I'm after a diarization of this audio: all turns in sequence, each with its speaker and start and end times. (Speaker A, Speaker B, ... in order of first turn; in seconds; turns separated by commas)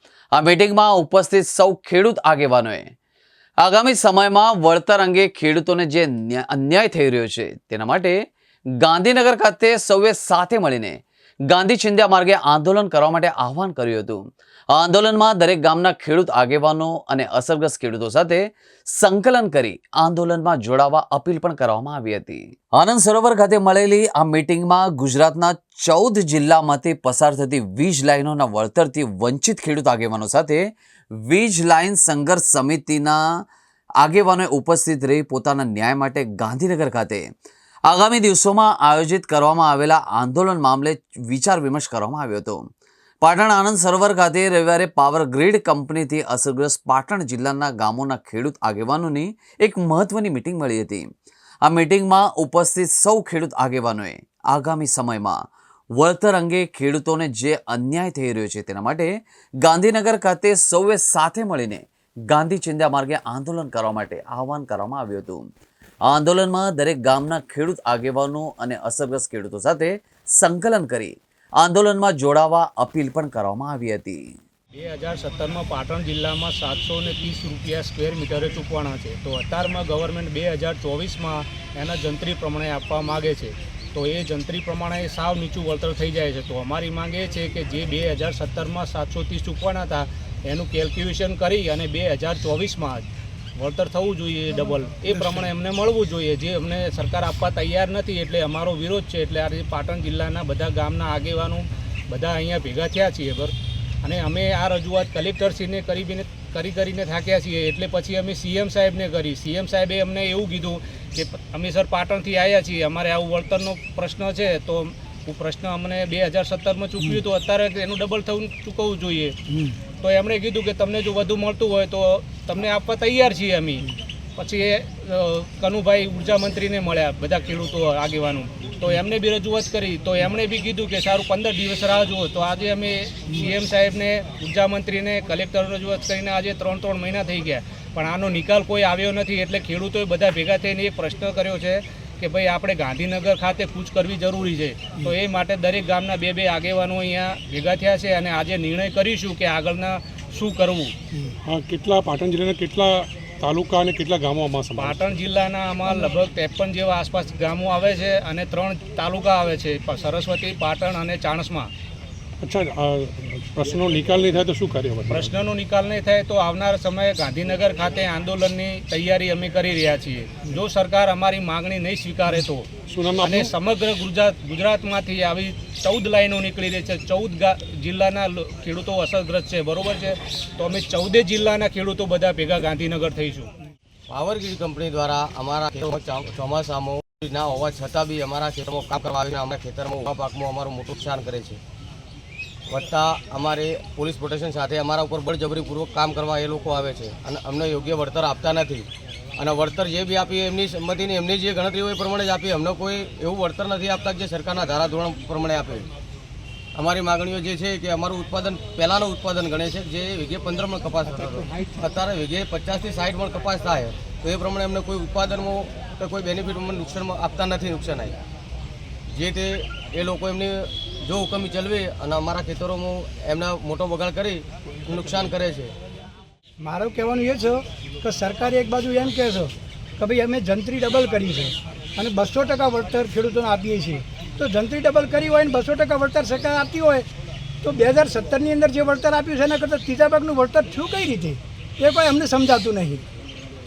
Speaker A: 0.3-2.9, Speaker A: 3.6-8.1, Speaker A: 8.8-10.9, Speaker A: 11.5-14.2, Speaker A: 14.7-18.4, Speaker A: 18.9-30.6, Speaker A: 31.2-33.2, Speaker A: 34.0-37.2, Speaker A: 37.9-42.6, Speaker A: 43.2-51.1, Speaker A: 51.6-55.4, Speaker A: 56.0-59.1, Speaker A: 59.6-65.4, Speaker A: 66.0-74.2, Speaker B: 74.7-119.4, Speaker B: 120.0-150.9, Speaker C: 151.4-155.1, Speaker B: 154.8-161.7, Speaker C: 162.4-165.4, Speaker B: 165.1-172.7, Speaker C: 172.9-173.5, Speaker B: 173.2-183.5, Speaker D: 184.1-191.6, Speaker D: 192.7-205.9, Speaker D: 206.7-218.2, Speaker D: 219.1-225.7, Speaker E: 226.6-237.0, Speaker E: 237.6-243.0